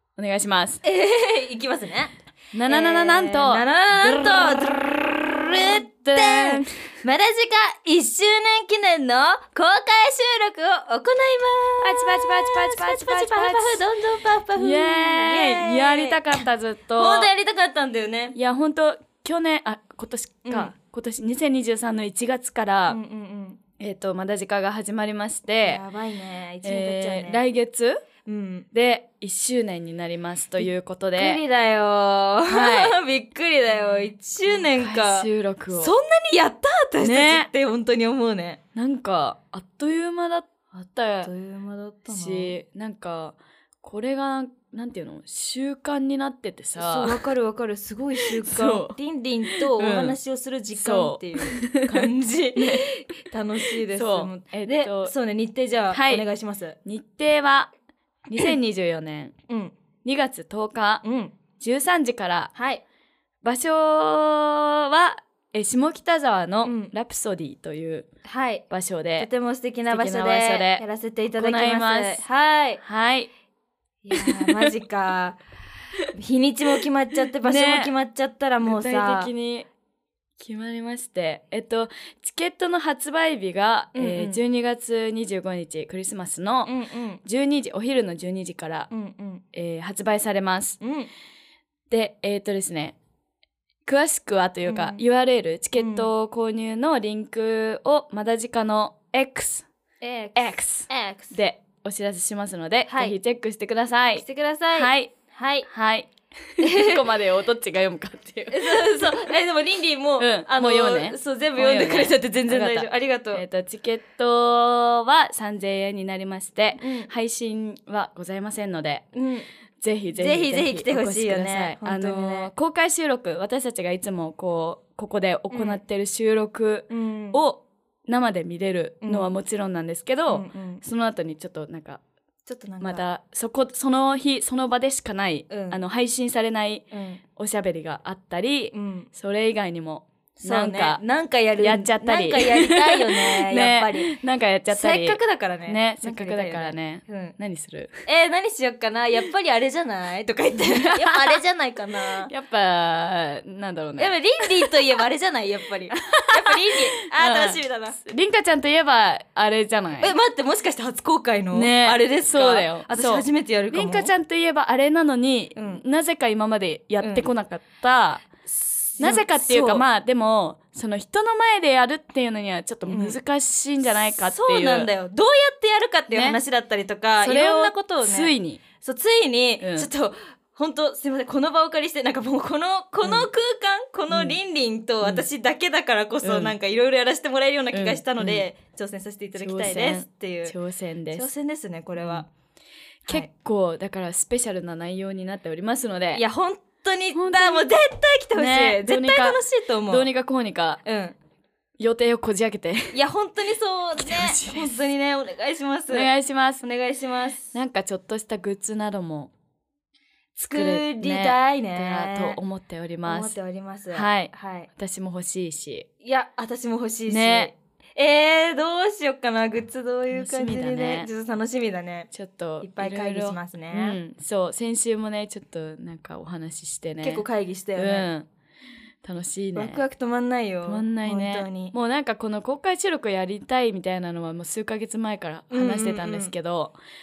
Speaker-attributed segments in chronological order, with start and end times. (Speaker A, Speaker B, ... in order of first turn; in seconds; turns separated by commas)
Speaker A: 0.2-0.8, Speaker B: 0.8-16.4, Speaker A: 2.5-4.5, Speaker A: 5.7-6.9, Speaker A: 11.8-13.8, Speaker A: 14.5-17.3, Speaker B: 16.9-18.4, Speaker A: 18.3-23.0, Speaker B: 20.4-20.7, Speaker B: 22.9-23.6, Speaker A: 23.8-25.8, Speaker B: 25.6-27.4, Speaker A: 26.6-28.0, Speaker B: 28.2-28.7, Speaker A: 28.7-31.4, Speaker B: 30.6-38.6, Speaker A: 32.5-33.0, Speaker A: 33.7-35.9, Speaker A: 37.0-37.5, Speaker A: 38.7-41.3, Speaker B: 41.2-42.5, Speaker A: 42.1-47.2, Speaker B: 46.8-56.8, Speaker A: 48.2-50.2, Speaker A: 50.7-52.9, Speaker A: 53.9-55.1, Speaker A: 55.9-56.2, Speaker A: 56.8-57.7, Speaker A: 58.3-59.3, Speaker B: 59.5-59.7, Speaker A: 60.0-61.0, Speaker B: 61.0-61.3, Speaker A: 61.6-62.5, Speaker B: 62.5-62.8, Speaker A: 63.4-68.1, Speaker B: 66.6-66.9, Speaker B: 68.2-68.7, Speaker A: 68.7-69.3, Speaker B: 69.2-72.8, Speaker A: 69.9-72.2, Speaker A: 72.8-73.3, Speaker B: 74.0-75.4, Speaker A: 74.1-74.7, Speaker B: 76.1-79.3, Speaker A: 77.3-77.9, Speaker A: 78.6-79.7, Speaker A: 80.4-86.7, Speaker B: 83.9-84.4, Speaker B: 86.6-87.2, Speaker A: 87.2-88.9, Speaker B: 88.9-89.4, Speaker A: 89.5-90.8, Speaker B: 90.8-91.1, Speaker A: 91.9-93.0, Speaker A: 93.8-99.7, Speaker B: 94.7-95.0, Speaker B: 95.8-96.1, Speaker B: 100.0-101.3, Speaker A: 100.3-104.2, Speaker B: 102.9-103.2, Speaker B: 104.2-105.7, Speaker A: 104.8-105.1, Speaker A: 105.7-109.1, Speaker B: 106.6-107.0, Speaker B: 108.5-113.4, Speaker A: 110.2-119.1, Speaker B: 116.8-117.1, Speaker B: 119.1-119.5, Speaker A: 119.8-132.0, Speaker B: 120.1-122.5, Speaker B: 125.5-125.8, Speaker B: 126.9-127.4, Speaker B: 129.0-129.3, Speaker B: 130.3-130.8, Speaker B: 132.4-133.0, Speaker A: 132.8-141.0, Speaker B: 135.5-135.8, Speaker B: 136.9-137.2, Speaker B: 138.7-139.1, Speaker B: 140.4-144.1, Speaker A: 141.6-147.9, Speaker B: 144.7-147.3, Speaker B: 148.1-152.3, Speaker A: 150.6-151.3, Speaker A: 152.3-154.8, Speaker B: 154.0-158.0, Speaker A: 156.0-160.1, Speaker B: 160.0-164.1, Speaker A: 161.5-168.3, Speaker B: 165.5-165.8, Speaker B: 167.0-167.3, Speaker B: 168.4-169.8, Speaker A: 169.0-174.9, Speaker B: 172.9-173.2, Speaker B: 174.2-190.5, Speaker A: 176.1-176.4, Speaker A: 177.2-178.6, Speaker A: 179.6-179.9, Speaker A: 183.0-183.3, Speaker A: 184.1-184.4, Speaker A: 186.2-186.5, Speaker A: 187.7-188.4, Speaker A: 189.4-191.3, Speaker B: 191.1-192.3, Speaker A: 192.0-192.2, Speaker A: 193.1-196.2, Speaker B: 196.1-200.1, Speaker A: 197.1-197.7, Speaker A: 198.3-200.8, Speaker B: 200.8-201.2, Speaker A: 201.8-203.0, Speaker B: 202.9-206.1, Speaker A: 204.0-204.9, Speaker A: 205.9-206.6, Speaker B: 206.6-207.5, Speaker A: 207.5-209.3, Speaker B: 210.3-212.4, Speaker A: 210.5-213.3, Speaker B: 213.0-214.7, Speaker A: 213.9-215.9, Speaker B: 216.0-222.1, Speaker A: 217.1-217.5, Speaker A: 220.1-221.1, Speaker A: 222.1-227.2, Speaker B: 222.6-224.0, Speaker B: 227.0-228.1, Speaker A: 227.8-228.3, Speaker A: 229.0-229.8, Speaker B: 229.5-231.7, Speaker A: 230.7-236.8, Speaker B: 235.5-236.3